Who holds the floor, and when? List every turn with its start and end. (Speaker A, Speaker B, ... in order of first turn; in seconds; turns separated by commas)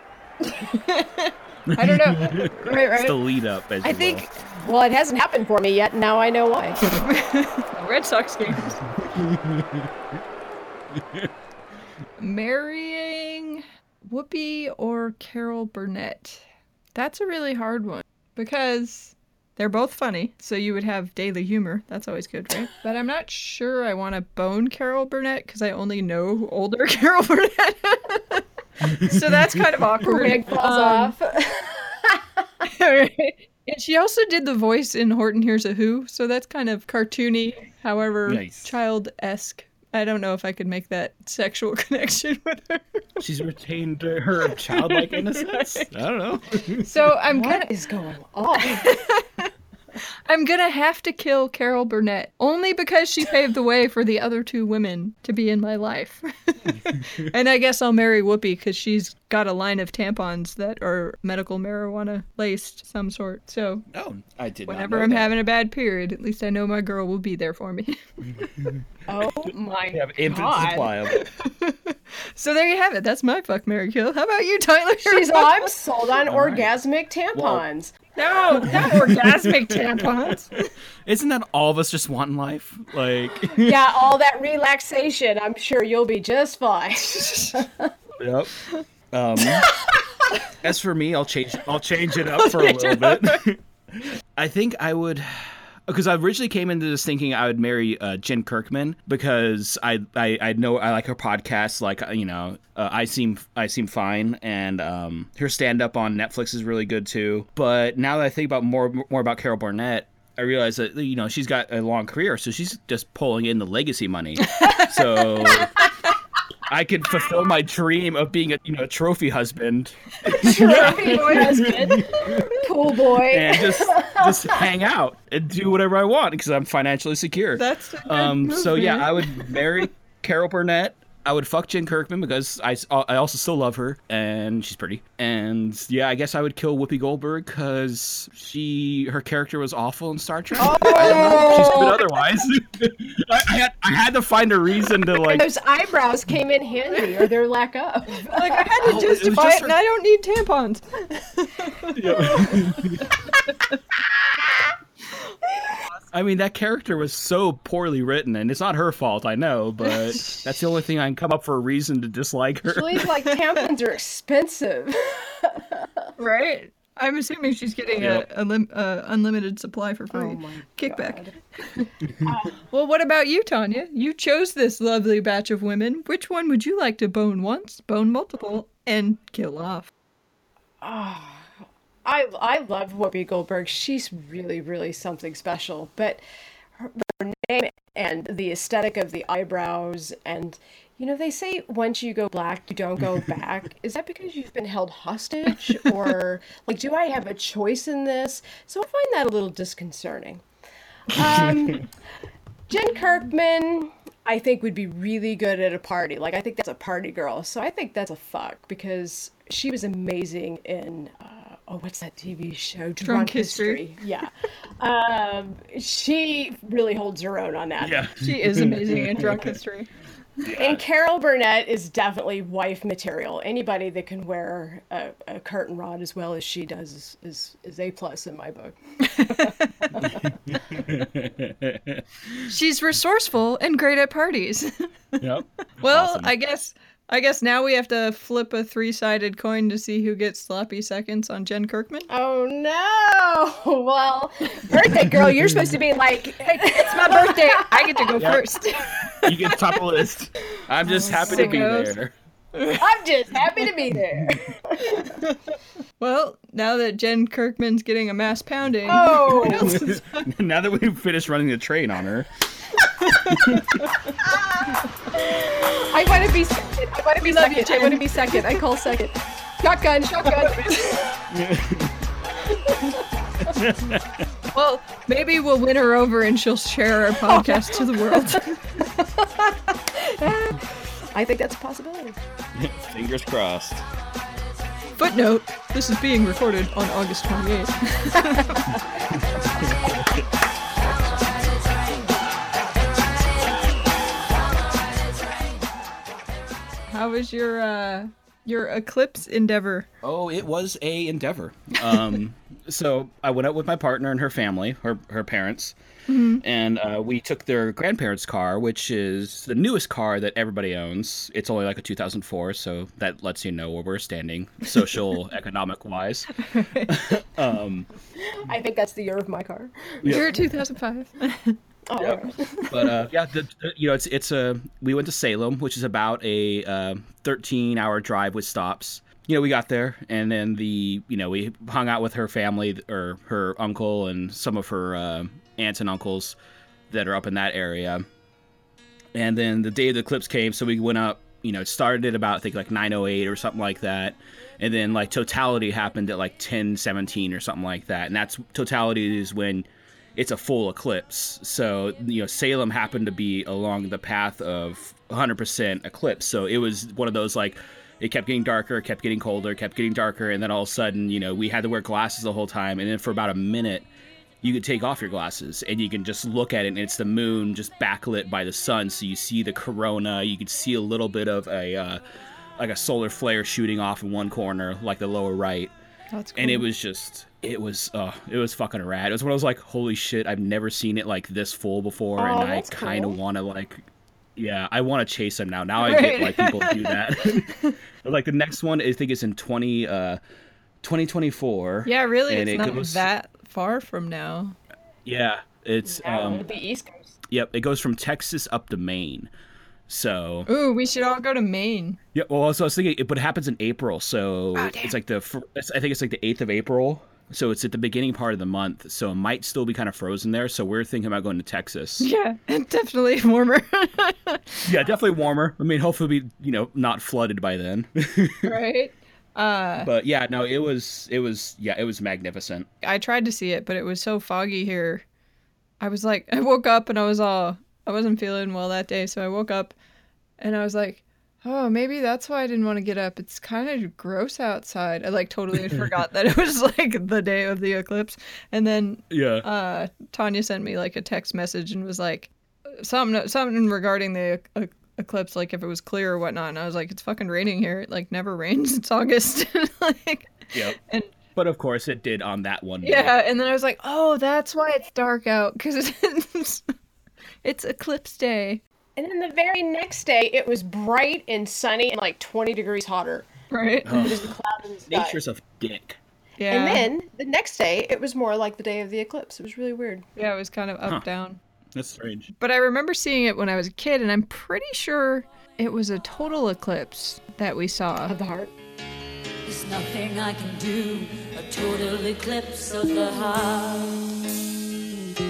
Speaker A: 0.5-3.2, Speaker B: 1.7-4.2, Speaker C: 3.8-6.8, Speaker A: 6.8-8.8, Speaker B: 8.5-9.9, Speaker B: 10.9-11.3, Speaker A: 12.2-16.4, Speaker A: 16.9-31.1, Speaker C: 30.0-31.9, Speaker A: 32.6-43.2, Speaker B: 38.2-38.7, Speaker B: 43.2-46.8, Speaker A: 44.7-45.9, Speaker A: 46.8-47.7, Speaker C: 47.3-48.9, Speaker A: 48.6-49.5, Speaker A: 50.3-63.9, Speaker B: 57.0-57.2, Speaker B: 63.9-65.3, Speaker A: 64.7-68.0, Speaker B: 68.3-68.8, Speaker C: 69.1-70.9, Speaker B: 69.9-71.3, Speaker A: 71.1-75.7, Speaker C: 75.0-78.0, Speaker B: 76.2-76.7, Speaker B: 77.3-77.6, Speaker A: 78.2-80.6, Speaker B: 78.7-80.3, Speaker B: 81.0-83.8, Speaker C: 83.6-87.9, Speaker B: 88.2-88.5, Speaker B: 89.1-89.7, Speaker B: 90.6-115.7, Speaker A: 92.3-93.4, Speaker A: 114.5-115.7, Speaker B: 116.7-122.5, Speaker C: 120.4-124.6, Speaker A: 120.8-121.7, Speaker B: 123.3-145.4, Speaker A: 127.5-129.6, Speaker C: 140.6-142.0, Speaker A: 140.9-141.9, Speaker C: 145.3-149.1, Speaker A: 148.3-153.7, Speaker B: 148.8-149.8, Speaker B: 151.9-153.0, Speaker B: 156.1-163.0, Speaker A: 159.9-160.4, Speaker C: 162.7-165.9, Speaker A: 166.2-171.9, Speaker B: 168.0-168.2, Speaker C: 170.1-171.4, Speaker C: 172.2-172.6, Speaker A: 172.7-179.9, Speaker C: 180.8-181.5, Speaker C: 182.0-186.2, Speaker C: 186.8-200.4, Speaker C: 201.1-201.9, Speaker C: 202.7-218.0, Speaker A: 213.0-213.9, Speaker B: 217.8-219.5, Speaker A: 218.2-219.9, Speaker B: 220.4-220.8, Speaker C: 220.6-230.2, Speaker A: 229.1-229.6, Speaker B: 230.3-232.4, Speaker A: 232.5-235.1, Speaker B: 235.2-236.3, Speaker A: 235.8-242.1, Speaker C: 242.1-248.3, Speaker A: 246.5-249.5, Speaker B: 248.2-248.4, Speaker B: 249.2-252.1, Speaker A: 250.8-252.0, Speaker C: 250.9-251.7, Speaker A: 252.5-252.8, Speaker C: 252.7-255.2, Speaker A: 255.0-255.4, Speaker A: 256.0-260.3, Speaker C: 258.9-259.7, Speaker B: 259.5-262.3, Speaker A: 263.0-263.8, Speaker B: 263.3-263.8, Speaker C: 265.2-271.1, Speaker A: 267.2-268.6, Speaker A: 270.2-271.0, Speaker B: 271.3-271.9, Speaker B: 273.4-274.2, Speaker A: 274.5-278.7, Speaker C: 279.2-279.5, Speaker C: 280.0-282.2, Speaker B: 282.6-283.8, Speaker A: 285.0-288.8, Speaker B: 289.6-290.2, Speaker A: 296.9-299.9, Speaker B: 300.0-305.8, Speaker A: 306.1-306.4, Speaker B: 306.4-316.3, Speaker A: 316.4-317.0, Speaker B: 316.9-317.9, Speaker C: 318.2-320.1, Speaker B: 320.0-320.3, Speaker A: 320.0-321.6, Speaker C: 321.9-322.7, Speaker B: 322.0-336.4, Speaker B: 336.9-338.1, Speaker B: 339.1-363.9, Speaker B: 364.4-372.0, Speaker B: 372.6-375.7, Speaker A: 376.1-376.6, Speaker B: 376.4-383.8, Speaker C: 382.2-383.1, Speaker B: 384.4-390.2, Speaker A: 385.8-387.8, Speaker B: 390.8-393.1, Speaker A: 391.8-394.6, Speaker B: 395.1-396.5, Speaker C: 395.9-397.1, Speaker B: 397.3-399.3, Speaker B: 399.9-400.5, Speaker A: 400.5-402.0, Speaker B: 402.1-412.1, Speaker A: 404.6-404.9, Speaker A: 412.0-414.7, Speaker B: 414.6-418.5, Speaker A: 418.4-419.9, Speaker B: 419.8-422.7, Speaker A: 422.8-425.0, Speaker A: 425.8-429.7, Speaker A: 430.4-451.1, Speaker B: 435.5-435.9, Speaker B: 439.1-439.4, Speaker B: 450.5-450.8, Speaker B: 451.4-453.1, Speaker A: 452.8-456.6, Speaker A: 457.4-458.6, Speaker C: 458.9-463.3, Speaker A: 463.5-464.0, Speaker B: 463.8-464.3, Speaker C: 463.9-465.2, Speaker B: 464.9-466.0, Speaker A: 466.4-466.9, Speaker C: 466.5-470.1, Speaker A: 470.2-471.4, Speaker B: 471.7-472.3, Speaker A: 472.4-478.1, Speaker C: 478.1-478.5, Speaker D: 479.4-484.2